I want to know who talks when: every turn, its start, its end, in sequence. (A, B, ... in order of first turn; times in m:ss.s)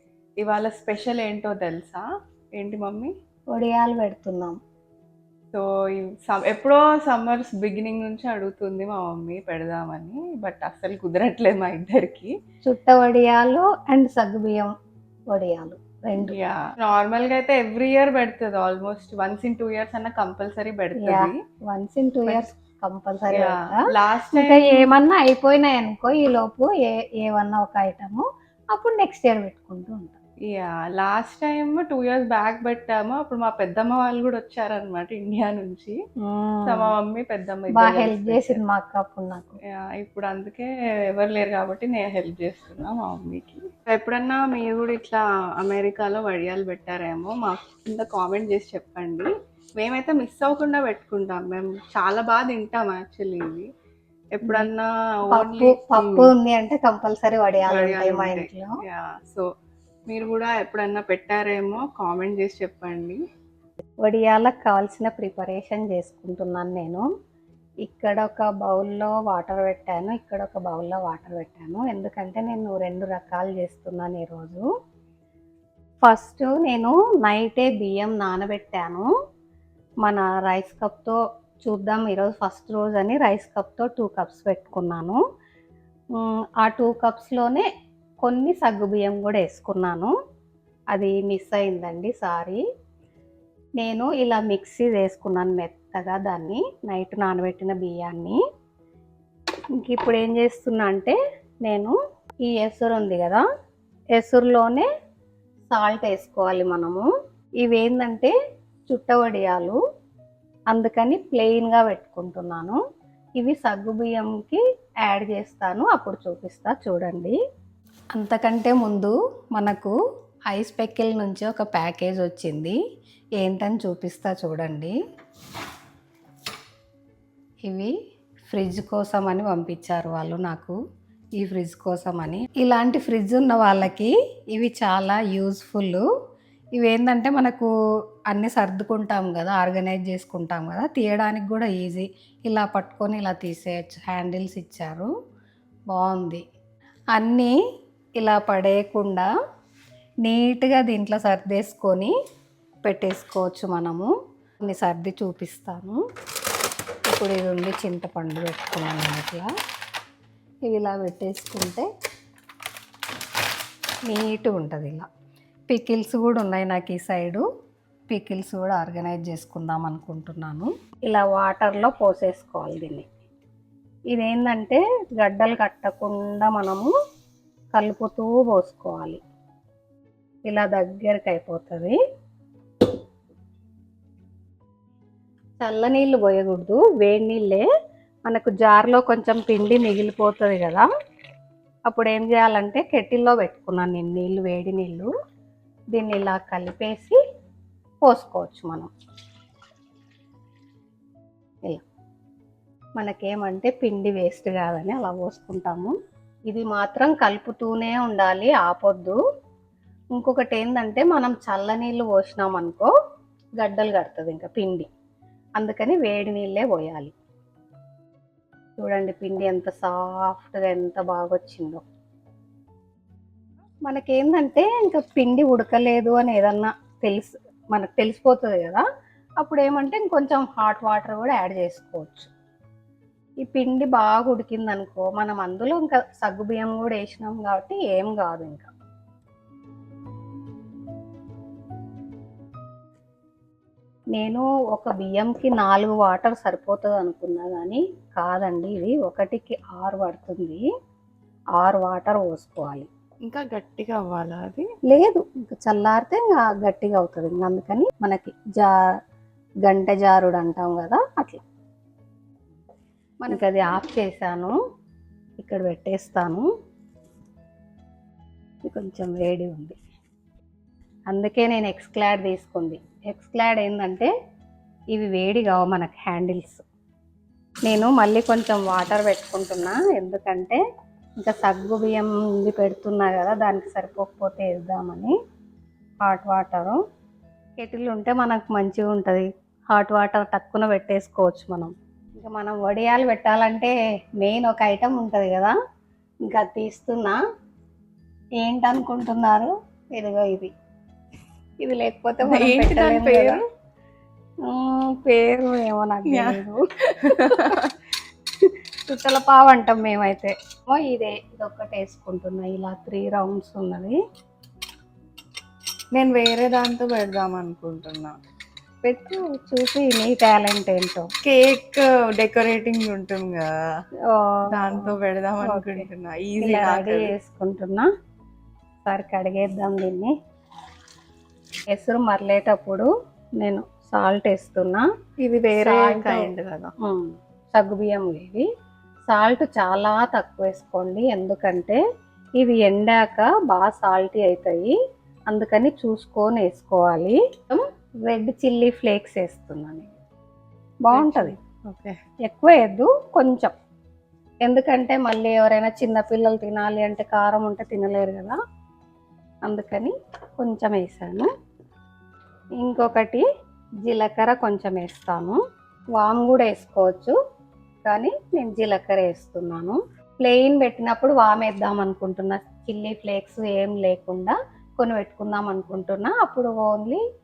0:00.4-0:03.1 A
0:03.5-0:04.6 B
0:05.5-0:12.3 A
0:12.6-0:14.7 B
0:15.3-0:16.4 B
0:16.2-0:21.4 A
0:21.0-0:30.2 B
0:23.3-0:24.9 A
0:30.5-0:36.0 A
0:36.2-0:36.9 B
0:36.6-0:38.6 A
0:37.7-0:39.6 B
0:39.8-0:53.7 A
0:54.3-0:56.3 A
0:55.3-0:58.7 B
0:57.7-0:59.5 A
1:00.1-1:03.2 A
1:04.0-1:07.1 B
1:07.8-1:14.6 B
1:16.0-1:19.1 B
1:20.0-1:25.2 B
1:26.2-1:27.7 B
1:28.2-1:30.1 B
1:30.9-1:32.6 B
1:33.8-1:38.4 B
1:39.8-1:43.4 B
1:44.2-1:44.9 B
1:45.7-1:47.1 B
1:47.6-1:48.3 B
1:48.9-1:49.8 B
1:50.7-1:52.8 B
1:53.4-1:57.4 B
1:58.1-1:59.9 B
2:00.5-2:02.8 B
2:03.4-2:04.9 B
2:07.6-2:07.9 B
2:08.5-2:10.8 B
2:11.4-2:16.0 B
2:16.8-2:17.7 B
2:18.3-2:25.1 B
2:25.9-2:26.4 B
2:27.2-2:27.5 B
2:28.2-2:29.3 B
2:30.2-2:32.1 B
2:32.8-2:34.1 B
2:34.6-2:36.0 B
2:37.1-2:39.5 B
2:40.7-2:41.9 B
2:44.1-2:45.0 B
2:45.7-2:47.4 B
2:48.1-2:53.1 B
2:54.1-2:56.9 B
2:57.7-2:59.2 B
3:00.5-3:02.0 B
3:05.6-3:07.7 B
3:08.3-3:10.9 B
3:11.9-3:15.1 B
3:15.9-3:17.2 B
3:18.0-3:18.9 B
3:23.0-3:26.0 B
3:26.5-3:29.2 B
3:30.2-3:32.9 B
3:33.6-3:34.9 B
3:35.6-3:37.1 B
3:38.8-3:41.8 B
3:43.9-3:48.8 B
3:49.4-3:52.3 B
3:53.4-3:58.7 B
4:04.2-4:10.6 B
4:11.6-4:12.9 B
4:13.3-4:14.7 A
4:14.9-4:18.7 B
4:19.6-4:21.4 B
4:23.2-4:24.6 B
4:25.4-4:26.5 B
4:28.6-4:29.8 B
4:31.1-4:34.1 B
4:34.9-4:36.6 B
4:37.6-4:40.6 B
4:41.2-4:45.1 B
4:46.0-4:46.8 B
4:47.6-4:55.6 B
4:56.3-4:57.2 B
4:58.4-5:00.5 B
5:01.6-5:03.4 B
5:02.2-5:03.4 A
5:04.5-5:07.6 B
5:06.1-5:07.7 A
5:08.9-5:14.0 B
5:15.9-5:18.1 A
5:18.8-5:21.1 B
5:21.2-5:23.5 A
5:24.1-5:25.8 B
5:24.5-5:27.1 A
5:26.4-5:27.9 B
5:28.8-5:30.1 B
5:31.7-5:32.9 B
5:33.4-5:34.8 B
5:35.2-5:36.7 A
5:35.6-5:36.3 B
5:36.8-5:38.5 B
5:39.1-5:41.8 B
5:42.4-5:44.7 B
5:45.3-5:50.0 B
5:50.8-5:51.4 B
5:50.9-5:52.0 A
5:52.3-5:53.5 B
5:54.4-5:58.4 B
5:59.5-6:01.3 B
6:02.6-6:03.2 B
6:03.8-6:05.4 B
6:06.0-6:07.2 B
6:07.8-6:17.0 B